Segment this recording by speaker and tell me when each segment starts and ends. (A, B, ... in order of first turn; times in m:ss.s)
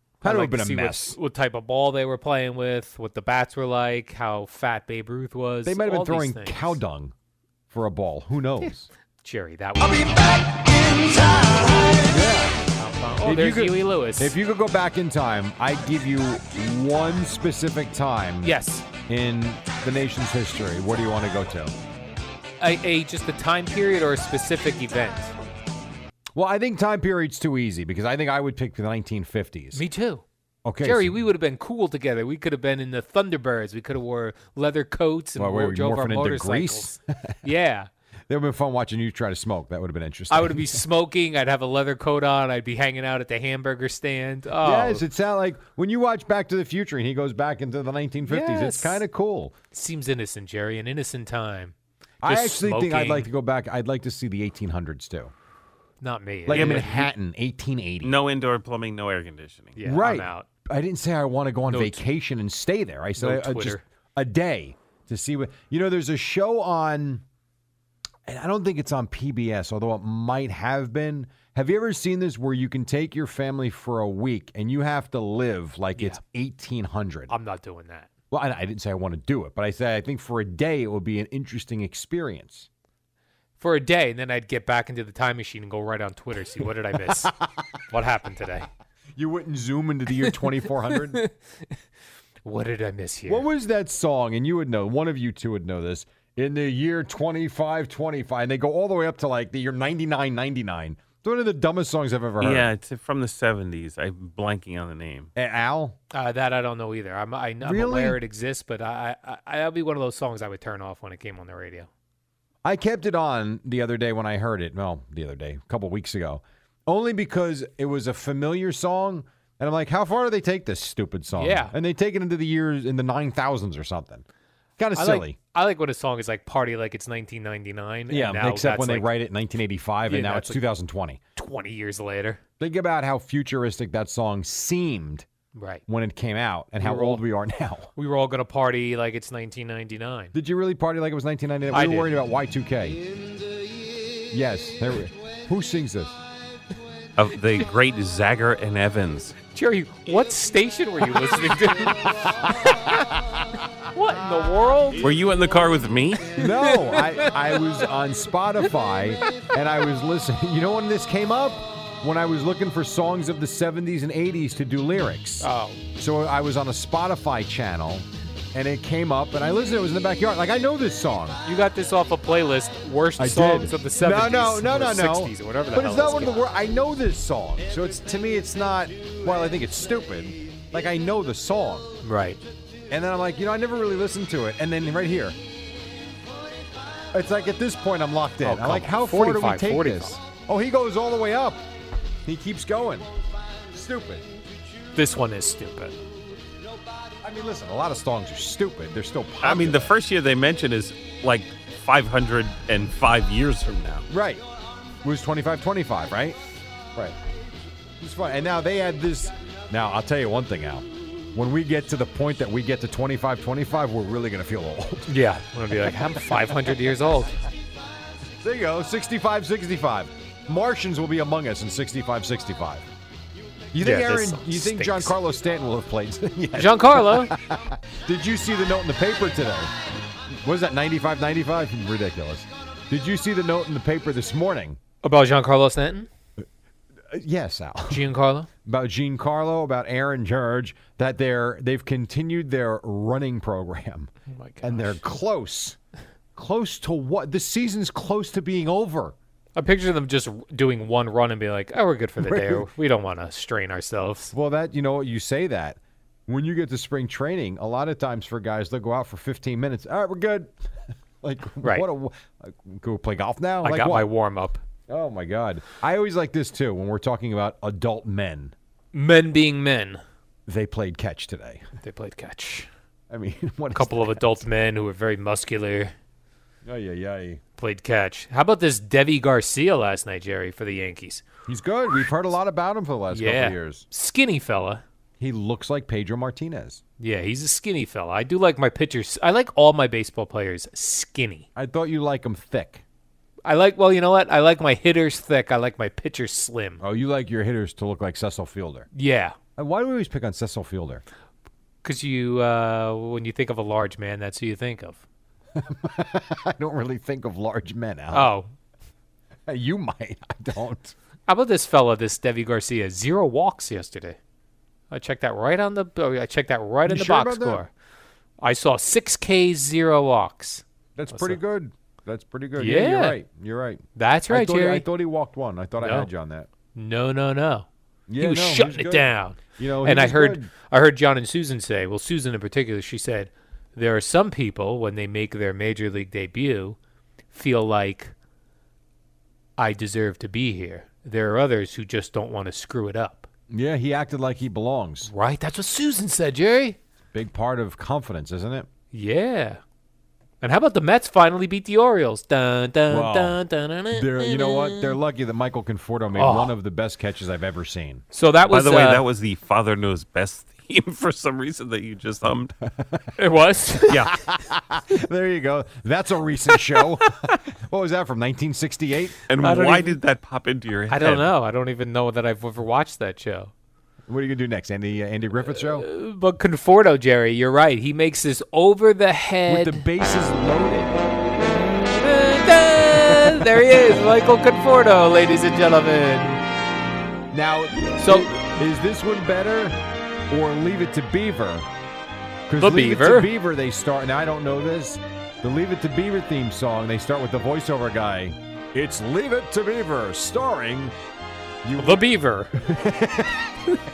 0:00.2-0:01.2 A
0:00.2-0:06.8 B
0:05.6-0:07.1 A
0:07.7-0:08.9 A
0:09.2-0:14.3 B
0:12.1-0:12.6 A
0:13.2-0:18.5 A
0:18.4-0:18.8 B
0:19.0-0:21.7 A
0:22.6-0:25.3 B
0:26.3-0:29.8 A
0:29.7-0:30.2 B
0:30.6-0:31.2 A
0:30.8-0:37.9 B
0:35.3-0:37.3 A
0:38.3-0:40.8 A
0:40.3-0:45.0 B
0:44.6-0:49.5 A
0:48.3-0:49.0 B
0:49.7-0:53.3 B
0:52.2-0:55.3 A
0:56.0-0:57.1 B
0:56.5-0:58.2 A
0:56.5-0:56.9 C
0:58.0-0:59.8 C
0:59.7-1:00.5 B
0:59.8-1:07.2 A
1:01.7-1:02.0 B
1:03.2-1:03.8 B
1:08.2-1:17.3 A
1:15.9-1:16.2 B
1:17.3-1:18.1 B
1:18.3-1:22.7 A
1:23.6-1:27.3 B
1:27.9-1:28.7 B
1:29.2-1:31.2 A
1:32.4-1:33.4 B
1:33.3-1:42.7 A
1:42.4-1:45.3 C
1:45.3-1:46.0 A
1:46.1-1:51.9 B
1:47.6-1:48.2 A
1:52.6-2:04.2 A
2:01.3-2:01.7 B
2:04.8-2:05.4 A
2:04.9-2:09.1 B
2:08.1-2:11.2 A
2:10.1-2:10.6 B
2:11.4-2:12.4 B
2:12.6-2:15.2 A
2:15.5-2:15.8 B
2:15.9-2:17.9 A
2:16.8-2:17.2 B
2:18.0-2:20.3 B
2:20.3-2:23.0 A
2:21.7-2:22.1 B
2:24.3-2:26.2 A
2:27.2-2:29.3 C
2:29.5-2:33.1 B
2:33.9-2:35.1 B
2:35.0-2:36.3 C
2:36.4-2:51.4 A
2:36.4-2:37.7 B
2:45.4-2:45.8 B
2:51.4-2:56.4 B
2:53.2-3:01.9 A
3:02.0-3:02.4 B
3:02.9-3:05.4 A
3:07.1-3:11.6 A
3:08.4-3:10.2 B
3:12.2-3:13.1 A
3:13.7-3:14.3 A
3:14.9-3:16.0 B
3:17.2-3:19.9 A
3:19.4-3:24.0 C
3:24.1-3:24.4 A
3:25.0-3:26.4 A
3:28.0-3:35.1 A
3:35.1-3:37.3 B
3:35.7-3:36.7 A
3:38.4-3:42.8 A
3:43.7-3:49.7 A
3:43.8-3:45.1 B
3:46.5-3:47.3 B
3:50.3-3:54.8 A
3:55.0-3:56.1 B
3:57.1-3:58.1 A
3:57.9-3:58.5 B
3:58.6-4:05.8 A
4:04.3-4:05.0 B
4:06.4-4:09.2 A
4:09.6-4:14.3 B
4:12.2-4:12.7 A
4:14.3-4:20.5 A
4:21.2-4:24.1 A
4:23.6-4:24.6 B
4:24.9-4:28.5 A
4:28.9-4:30.0 B
4:30.5-4:31.6 A
4:31.8-4:32.7 B
4:33.1-4:34.3 A
4:33.7-4:35.9 B
4:36.6-4:37.4 A
4:37.6-4:41.2 B
4:41.5-4:43.8 A
4:43.1-4:44.8 B
4:45.2-4:46.8 A
4:47.0-4:51.5 B
4:51.5-4:52.8 A
4:53.4-4:56.8 B
4:56.8-4:58.9 A
4:58.9-4:59.4 B
4:59.6-5:01.0 A
5:01.8-5:05.0 B
5:05.5-5:08.3 A
5:08.1-5:08.5 B
5:09.5-5:10.9 A
5:11.3-5:14.2 B
5:14.9-5:17.7 B
5:16.8-5:17.6 A
5:18.4-5:21.4 B
5:21.0-5:26.5 A
5:22.6-5:23.2 B
5:24.0-5:24.8 B
5:25.8-5:26.1 B
5:26.7-5:27.7 B
5:28.1-5:30.5 A
5:28.2-5:36.8 B
5:37.3-5:38.1 B
5:39.6-5:43.3 B
5:43.5-5:45.1 A
5:45.0-5:46.8 B
5:47.1-5:48.7 A
5:48.9-5:49.6 B
5:50.4-5:54.9 B
5:52.9-5:53.4 A
5:53.9-5:58.0 A
5:56.1-5:56.5 B
5:58.1-5:59.0 B
5:58.5-6:02.5 C
6:03.2-6:04.1 B
6:03.9-6:09.2 A
6:09.3-6:11.3 C
6:09.4-6:10.0 B
6:10.9-6:13.5 B
6:14.1-6:15.8 A
6:15.5-6:19.8 B
6:19.5-6:21.0 A
6:21.9-6:26.4 B
6:22.9-6:23.6 A
6:27.3-6:31.7 A
6:28.0-6:28.3 B
6:32.5-6:40.9 A
6:32.6-6:33.3 B
6:41.6-6:42.0 A
6:41.8-6:42.6 B
6:42.5-6:43.6 A